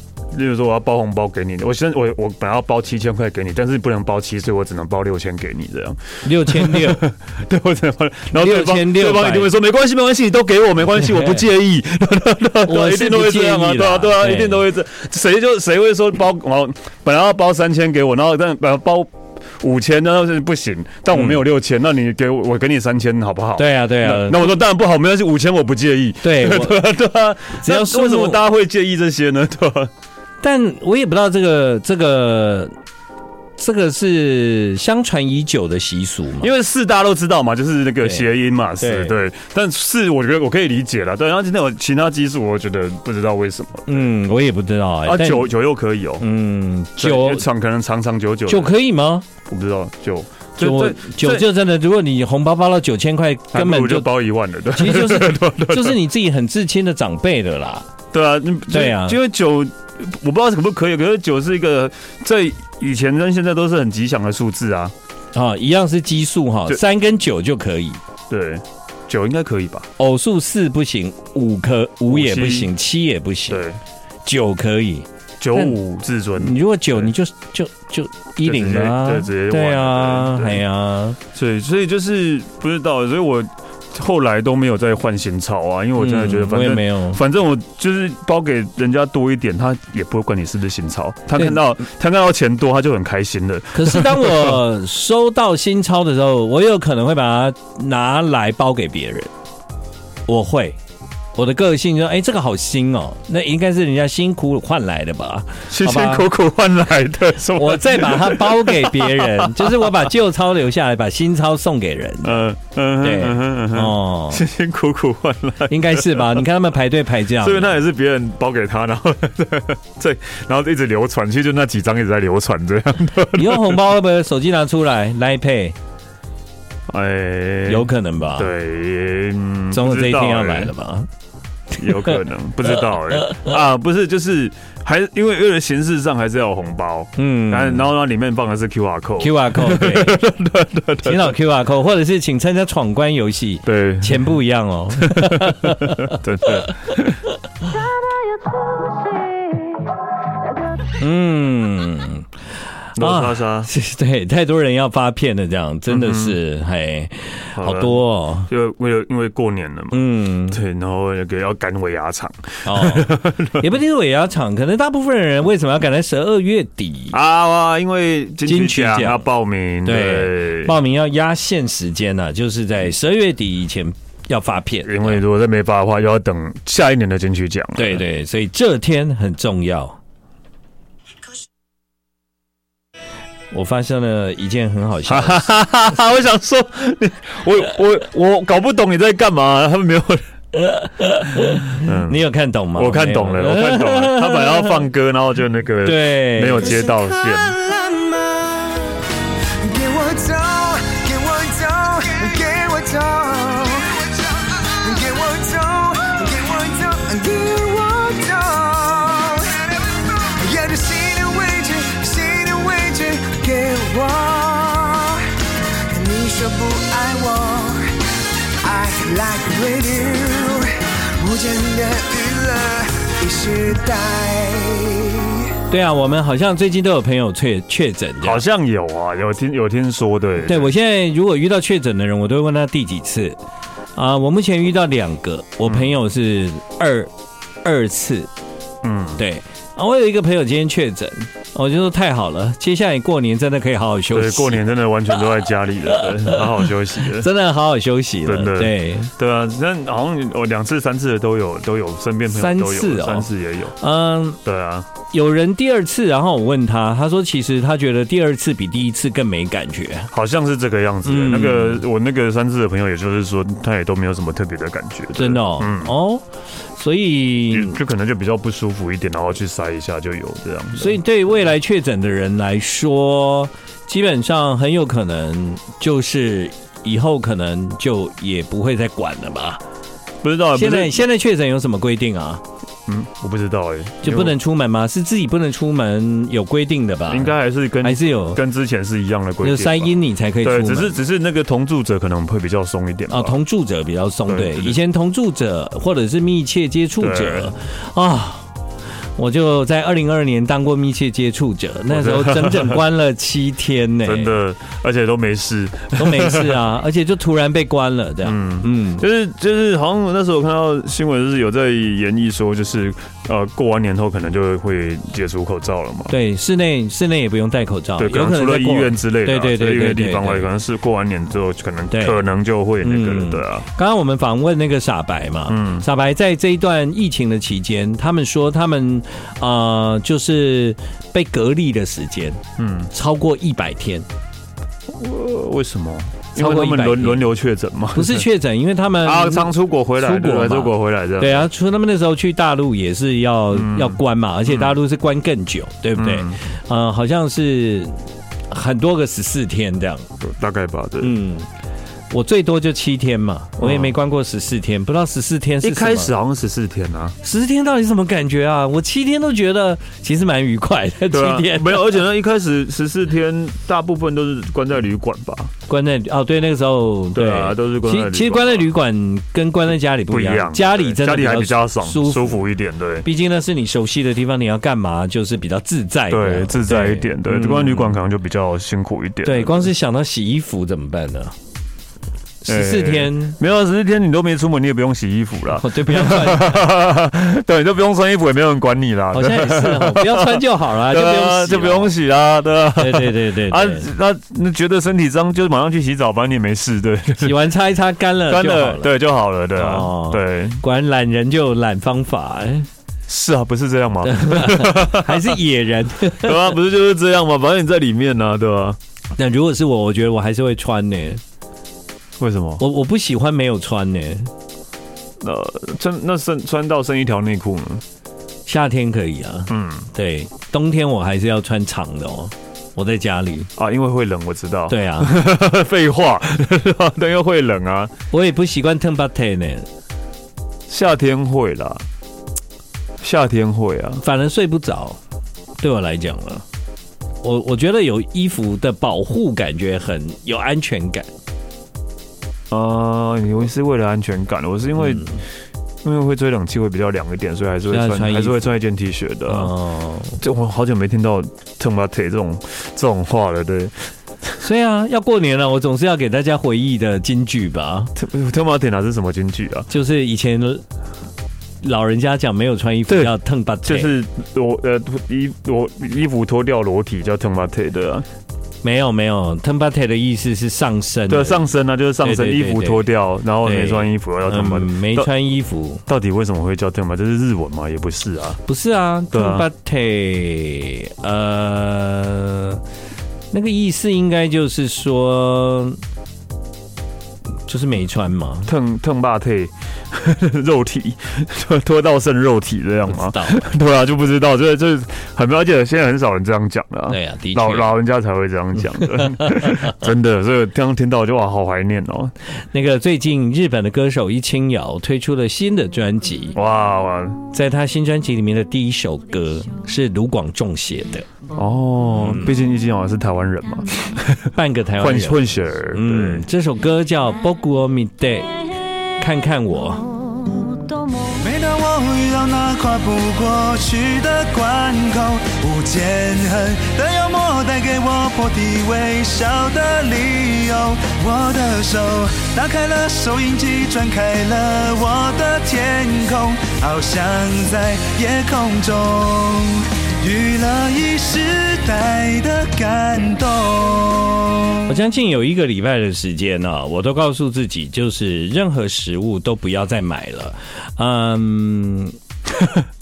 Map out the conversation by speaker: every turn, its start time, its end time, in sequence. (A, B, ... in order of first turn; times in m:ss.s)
0:00.3-0:29.9 A
0:06.2-0:07.0 B
0:08.4-0:09.5 B
0:11.0-0:11.4 B
0:12.6-0:14.6 B
0:21.1-0:21.4 B
0:23.6-0:24.5 B
0:26.2-0:26.9 B
0:27.6-0:28.4 B
0:30.4-0:32.7 B
0:33.6-0:36.5 B
0:36.4-0:44.1 A
0:38.8-0:39.2 B
0:43.9-0:45.5 B
0:45.1-0:46.3 A
0:46.2-0:47.4 B
0:47.0-0:48.7 A
0:48.5-0:49.3 B
0:49.5-0:51.5 A
0:50.6-0:54.1 B
0:53.5-0:56.0 A
0:54.8-0:57.9 B
0:58.1-1:04.9 A
0:58.7-0:59.2 B
1:05.3-1:08.0 B
1:08.3-1:09.9 A
1:10.0-1:13.6 B
1:12.1-1:12.7 A
1:13.5-1:13.8 A
1:14.2-1:15.8 B
1:15.4-1:17.1 A
1:16.4-1:21.2 B
1:18.4-1:20.6 A
1:21.3-1:34.6 A
1:26.0-1:27.2 B
1:33.7-1:39.3 B
1:40.3-1:40.8 B
1:41.4-1:46.3 B
1:45.7-1:49.9 A
1:47.6-1:52.4 B
1:52.2-1:56.4 A
1:53.0-1:54.4 B
1:55.7-1:57.8 B
1:57.4-2:03.8 A
2:03.3-2:05.8 B
2:06.9-2:10.7 A
2:07.7-2:08.5 B
2:09.7-2:11.1 B
2:11.8-2:21.4 A
2:11.9-2:12.2 B
2:13.2-2:13.6 B
2:17.2-2:17.9 B
2:19.2-2:20.2 B
2:21.0-2:27.0 B
2:23.6-2:24.3 A
2:25.0-2:27.2 A
2:28.9-2:29.5 C
2:31.0-2:32.3 B
2:33.0-2:33.7 A
2:33.0-2:38.5 B
2:35.9-2:36.4 A
2:37.6-2:43.6 A
2:39.9-2:40.6 B
2:42.6-2:47.2 B
2:47.1-2:50.8 A
2:48.5-2:49.2 B
2:49.8-2:55.2 B
2:54.9-2:58.0 A
2:57.8-3:00.0 B
3:03.5-3:05.5 B
3:05.1-3:10.2 A
3:10.5-3:14.8 B
3:11.7-3:12.2 A
3:12.8-3:17.6 A
3:15.8-3:16.8 B
3:16.8-3:45.5 C
3:45.7-3:48.4 B
3:48.2-3:50.7 A
3:50.4-3:53.4 B
3:54.0-3:57.1 B
3:57.6-3:58.3 B
3:58.8-3:59.2 A
3:59.2-4:04.6 B
4:04.1-4:07.3 A
4:06.0-4:09.1 B
4:08.2-4:13.8 A
4:12.3-4:13.3 B
4:13.8-4:14.4 B
4:14.4-4:14.9 A
4:15.1-4:20.1 B
4:20.1-4:25.9 A
4:21.0-4:21.8 B
4:25.2-4:26.2 B
4:26.8-4:27.8 B
4:27.5-4:31.0 A
4:30.8-4:39.6 B
4:40.2-4:41.0 A
4:40.6-4:42.4 B
4:42.9-4:44.4 A
4:44.0-4:48.4 B
4:47.1-4:53.4 A
4:49.4-4:50.9 B
4:53.1-4:58.5 B
4:54.3-4:54.8 A
4:57.0-4:57.6 A
4:59.2-5:04.3 B
5:01.9-5:02.8 A
5:04.0-5:06.6 A
5:06.0-5:09.0 B
5:08.2-5:16.1 A
5:16.1-5:20.5 B
5:18.0-5:23.6 A
5:21.9-5:22.2 B
5:22.8-5:32.4 B
5:25.5-5:25.8 A
5:32.6-5:32.9 A
5:32.9-5:34.1 B
5:34.9-5:38.3 A
5:36.4-5:37.2 B
5:38.0-5:50.1 B
5:39.0-5:41.5 A
5:43.5-5:44.8 A
5:46.0-5:46.4 A
5:50.2-5:51.1 A
5:51.0-5:51.5 B
5:52.1-5:56.1 B
5:53.6-5:54.0 A
5:55.6-5:57.2 A
5:57.2-6:02.0 B
6:01.1-6:05.5 A
6:05.7-6:12.4 B
6:07.1-6:08.7 A
6:10.1-6:13.1 A
6:13.0-6:18.0 B
6:16.1-6:19.7 A
6:19.2-6:21.3 B
6:22.4-6:23.4 B
6:22.5-6:37.4 A
6:25.6-6:26.7 B
6:29.1-6:31.9 B
6:32.8-6:33.9 B
6:37.2-6:38.9 B
6:38.3-6:40.6 A
6:39.6-6:42.7 B
6:43.1-6:45.4 A
6:44.1-6:46.5 B
6:46.1-6:48.8 A
6:49.2-6:51.2 B
6:52.2-6:52.6 A
6:52.6-6:54.3 B
6:55.2-6:57.8 A
6:58.5-7:03.5 B
6:59.5-6:59.9 A
7:03.6-7:07.9 A
7:04.7-7:05.1 B
7:08.1-7:09.7 B
7:10.7-7:11.8 A
7:13.0-7:14.0 A
7:14.0-7:15.0 B
7:15.6-7:16.4 B
7:17.2-7:21.1 B
7:22.5-7:25.2 A
7:24.8-7:25.2 B
7:25.8-7:29.5 A
7:27.7-7:28.5 B
7:29.3-7:30.2 B
7:30.2-7:33.9 A
7:34.4-7:37.9 B
7:38.0-7:39.7 A
7:39.7-7:40.6 B
7:41.6-7:43.9 B
7:42.9-7:43.1 A
7:43.6-7:48.0 A
7:48.6-7:51.4 B
7:51.1-7:55.1 A
7:52.0-7:52.9 B
7:53.4-7:55.8 B
7:55.9-7:58.4 A
7:58.5-8:02.6 B
7:59.1-7:59.5 A
8:03.3-8:05.8 B
8:07.5-8:08.5 B
8:08.5-8:22.1 A
8:12.9-8:13.4 B
8:16.9-8:17.8 B
8:19.1-8:19.7 B
8:22.5-8:26.4 B
8:26.4-8:27.2 A
8:27.3-8:31.1 B
8:31.3-8:36.2 A
8:32.0-8:32.3 B
8:34.4-8:35.2 B
8:35.7-8:38.4 B
8:39.0-8:40.1 B
8:41.1-9:04.7 C
9:04.7-9:12.0 B